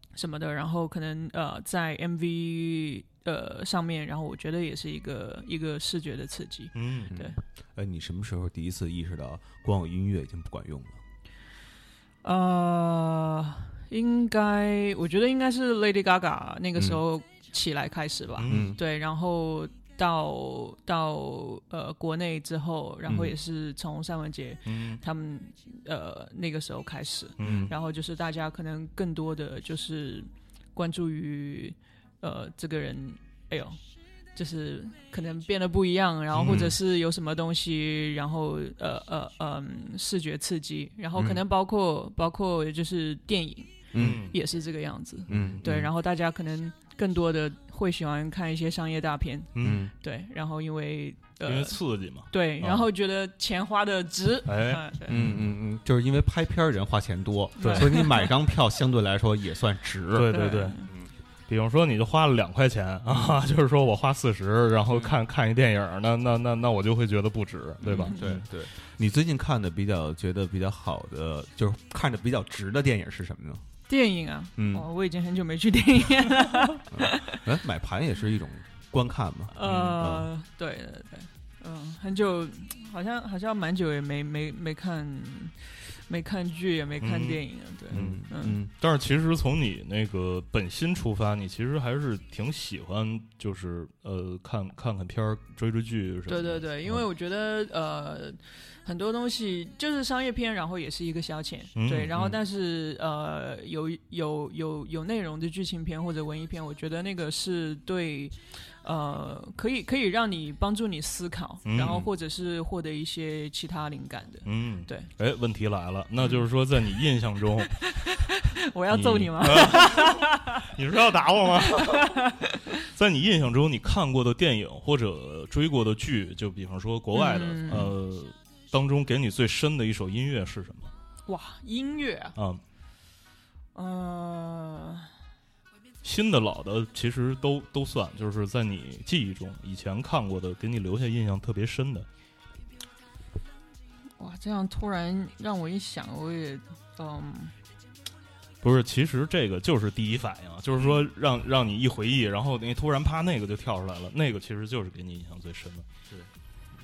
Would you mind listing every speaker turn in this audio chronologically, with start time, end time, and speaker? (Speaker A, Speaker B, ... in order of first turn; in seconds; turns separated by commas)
Speaker A: 0.1-7.4, Speaker B: 6.8-7.2, Speaker C: 7.1-11.0, Speaker A: 12.2-33.8, Speaker B: 18.4-18.7, Speaker C: 18.5-18.8, Speaker C: 23.1-23.4, Speaker B: 24.7-25.0, Speaker B: 27.4-27.7, Speaker C: 27.4-27.7, Speaker A: 34.4-55.2, Speaker B: 36.4-36.7, Speaker C: 36.4-36.8, Speaker C: 41.2-41.4, Speaker C: 43.9-44.3, Speaker B: 44.0-44.4, Speaker C: 45.3-45.9, Speaker B: 45.3-45.7, Speaker B: 49.5-49.9, Speaker C: 49.6-49.9, Speaker B: 51.5-52.8, Speaker B: 54.5-55.4, Speaker C: 55.1-60.4, Speaker A: 57.6-58.3, Speaker B: 57.6-57.9, Speaker B: 60.1-60.8, Speaker A: 60.3-60.9, Speaker B: 61.5-68.4, Speaker C: 63.1-63.4, Speaker C: 64.9-65.2, Speaker C: 67.8-73.7, Speaker A: 73.9-77.4, Speaker C: 74.6-74.9, Speaker C: 76.9-80.3, Speaker A: 79.5-88.6, Speaker B: 79.7-80.0, Speaker B: 87.0-87.4, Speaker B: 87.9-97.0, Speaker C: 87.9-88.7, Speaker A: 96.3-115.1, Speaker B: 101.8-102.3, Speaker B: 111.7-112.0, Speaker C: 111.8-112.1, Speaker B: 114.5-118.2, Speaker A: 117.8-120.7, Speaker B: 118.9-130.9, Speaker A: 121.6-122.8, Speaker A: 127.1-128.0, Speaker A: 131.3-132.4, Speaker B: 132.4-132.6, Speaker A: 133.8-135.1, Speaker B: 136.0-142.1, Speaker A: 144.2-147.6, Speaker B: 148.6-155.9